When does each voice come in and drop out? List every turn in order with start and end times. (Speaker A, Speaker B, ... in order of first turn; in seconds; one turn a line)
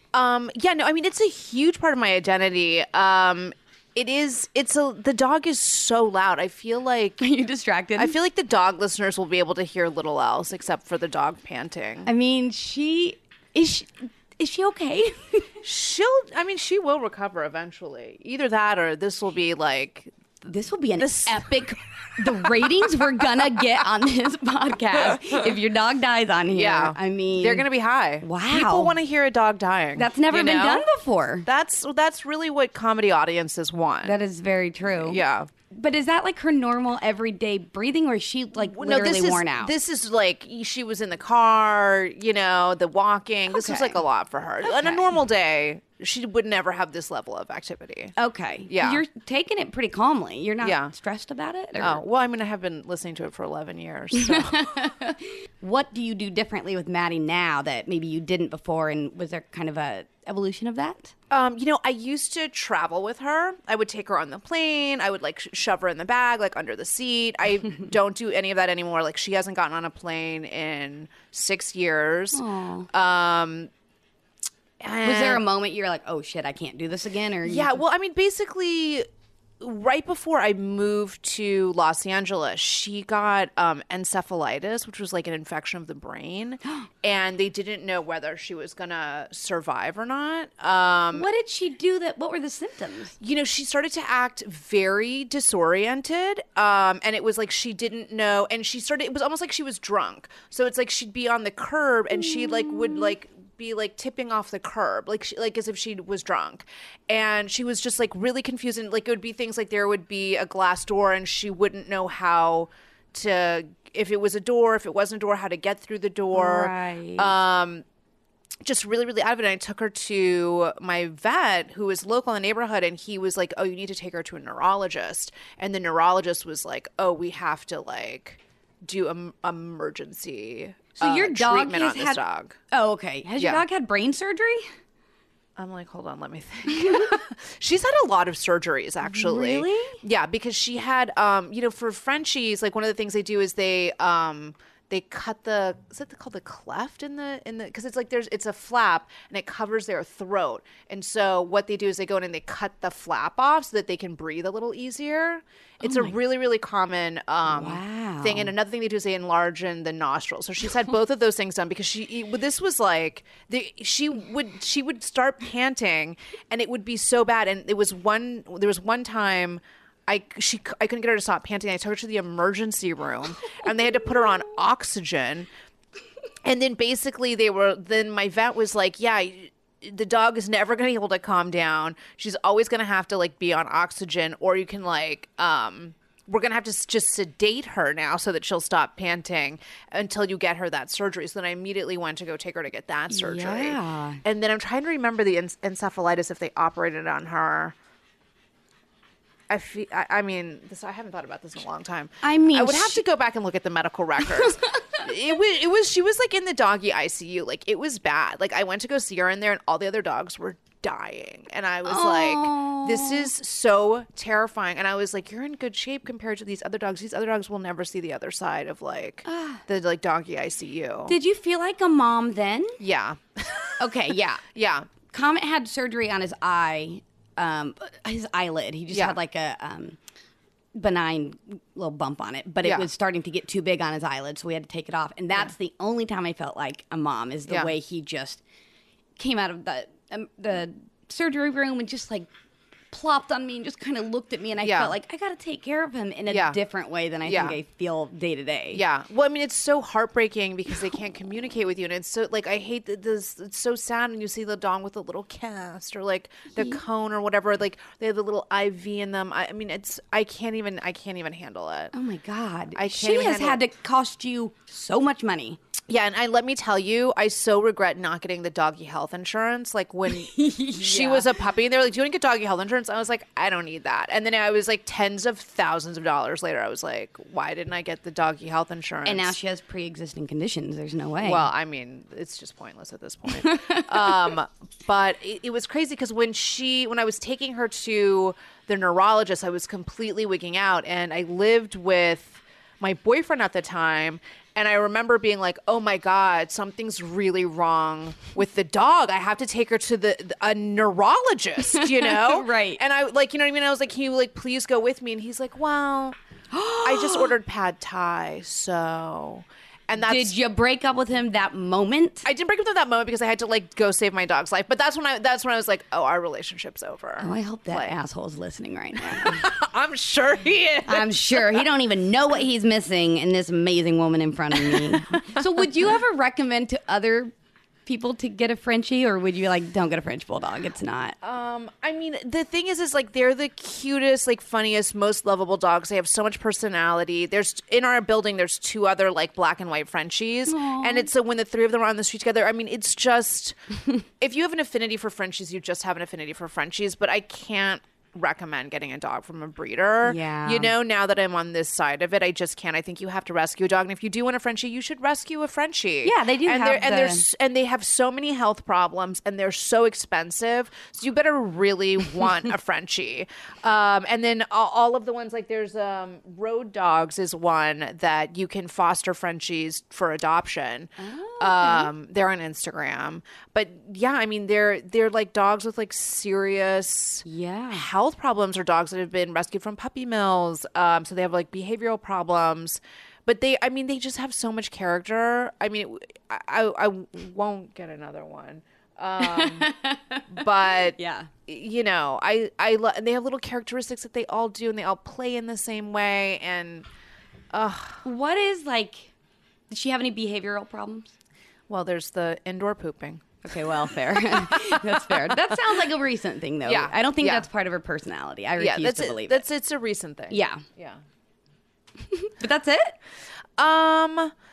Speaker A: 0.1-7.2
Speaker B: 7.2-8.1
Speaker A: 8.0-12.1
Speaker B: 12.0-15.6
Speaker A: 15.6-20.1
Speaker B: 20.4-27.6
Speaker A: 21.0-23.3
Speaker A: 26.5-30.9
Speaker B: 28.2-28.9
Speaker B: 29.9-31.5
Speaker A: 31.4-34.1
Speaker B: 34.0-39.7
Speaker A: 35.0-35.5
Speaker A: 38.6-48.1
Speaker B: 43.5-44.0
Speaker B: 44.6-45.0
Speaker B: 48.1-52.0
Speaker A: 48.7-49.0
Speaker A: 50.6-50.9
Speaker A: 51.8-54.7
Speaker B: 54.1-61.1
Speaker A: 61.3-73.7
Speaker B: 72.3-72.9
Speaker A: 74.8-75.4
Speaker B: 75.0-77.8
Speaker A: 77.4-79.0
Speaker A: 79.6-91.3
Speaker B: 91.1-93.1
Speaker A: 93.2-117.8
Speaker B: 116.3-117.3
Speaker A: 118.6-132.6
Speaker B: 131.0-134.7
Speaker A: 133.4-133.6
Speaker A: 135.6-175.5
Speaker B: 139.0-140.0
Speaker B: 155.8-156.1
Speaker B: 157.4-158.5
Speaker A: 176.4-197.7
Speaker B: 193.1-194.2
Speaker A: 199.5-221.2
Speaker B: 202.2-203.0
Speaker B: 204.3-205.0
Speaker B: 211.8-213.3
Speaker B: 219.2-219.6
Speaker B: 221.1-222.8
Speaker A: 222.8-224.9
Speaker B: 223.8-224.4
Speaker B: 225.1-230.0
Speaker A: 228.9-229.2
Speaker B: 230.7-238.4
Speaker A: 232.6-232.9
Speaker A: 237.5-237.7
Speaker B: 239.2-242.3
Speaker B: 242.9-248.8
Speaker A: 244.6-244.9
Speaker A: 246.3-246.6
Speaker A: 247.2-247.6
Speaker A: 248.7-261.9
Speaker B: 261.9-265.6
Speaker A: 262.7-263.6
Speaker A: 265.9-279.3
Speaker B: 270.1-271.3
Speaker B: 279.0-281.5
Speaker A: 281.2-306.2
Speaker B: 283.3-284.3
Speaker B: 301.6-302.8
Speaker B: 306.5-307.3
Speaker A: 306.8-310.3
Speaker B: 310.0-312.3
Speaker A: 312.2-317.9
Speaker B: 317.2-319.5
Speaker A: 319.0-321.6
Speaker B: 320.9-327.3
Speaker A: 324.5-325.7
Speaker B: 327.9-331.2
Speaker A: 331.2-343.6
Speaker B: 340.5-341.1
Speaker A: 344.2-389.7
Speaker B: 350.0-350.7
Speaker B: 356.0-357.2
Speaker B: 371.0-371.9
Speaker B: 377.2-377.9
Speaker B: 389.2-391.3
Speaker A: 390.3-396.9
Speaker A: 397.5-398.0
Speaker B: 398.0-399.1
Speaker B: 399.7-401.1
Speaker A: 401.7-403.2
Speaker B: 403.4-409.4
Speaker A: 404.1-405.6
Speaker A: 406.6-407.5
Speaker A: 408.6-411.0
Speaker B: 410.3-410.6
Speaker B: 412.0-413.0
Speaker A: 413.6-414.3